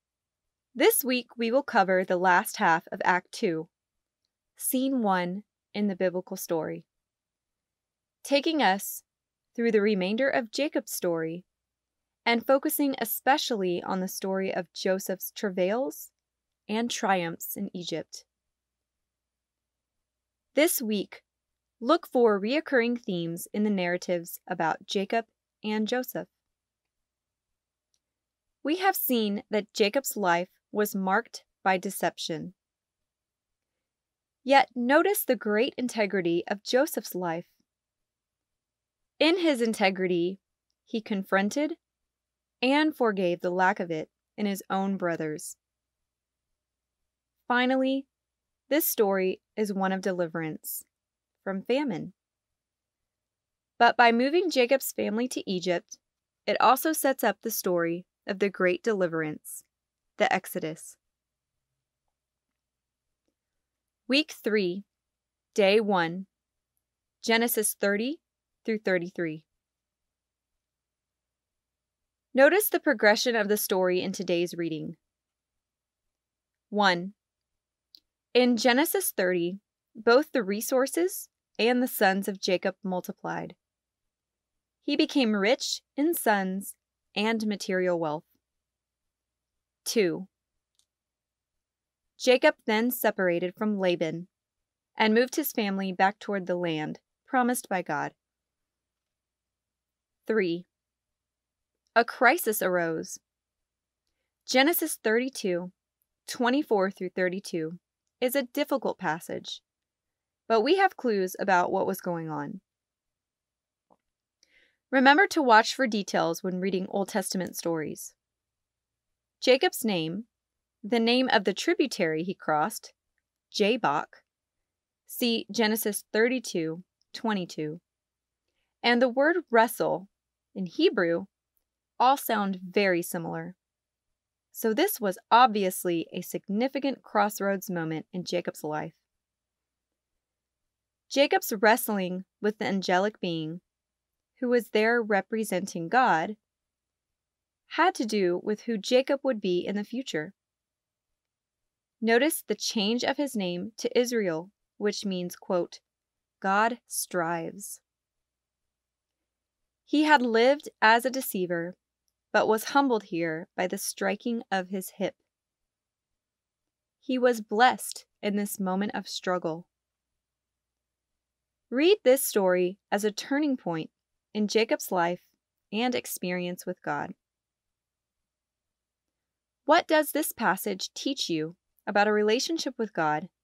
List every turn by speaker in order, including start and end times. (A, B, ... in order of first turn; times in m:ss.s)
0:00.8-0:03.7 A
0:04.6-0:06.9 A
0:08.2-0:11.4 A
0:12.3-0:16.1 A
0:16.7-0:18.3 A
0:20.5-0:21.3 A
0:21.8-0:26.3 A
0:28.6-0:32.6 A
0:34.4-0:37.6 A
0:39.2-0:41.8 A
0:42.6-0:45.6 A
0:47.5-0:48.1 A
0:48.7-0:50.9 A
0:51.4-0:52.2 A
0:53.8-0:59.6 A
1:00.2-1:01.0 A
1:04.1-1:04.9 A
1:05.5-1:06.3 A
1:07.2-1:09.4 A
1:12.3-1:15.0 A
1:16.7-1:17.2 A
1:18.3-1:23.6 A
1:24.8-1:28.3 A
1:29.8-1:30.3 A
1:32.2-1:34.3 A
1:35.0-1:38.2 A
1:40.3-1:40.7 A
1:42.0-1:43.2 A
1:44.5-1:45.7 A
1:46.3-1:49.6 A
1:50.5-1:52.6 A
1:54.9-1:58.2 A
1:59.4-2:00.3 A
2:00.8-2:02.9 A
2:03.5-2:04.2 A
2:05.1-2:07.8 A
2:08.8-2:11.3 A
2:12.0-2:13.6 A
2:14.5-2:19.0 A
2:21.1-2:23.6 A
2:24.4-2:26.4 A
2:27.7-2:30.4 A
2:32.0-2:35.8 A
2:36.4-2:37.8 A
2:39.8-2:41.8 A
2:42.3-2:45.2 A
2:47.0-2:49.7 A
2:51.7-2:57.2 A
2:59.7-3:03.3 A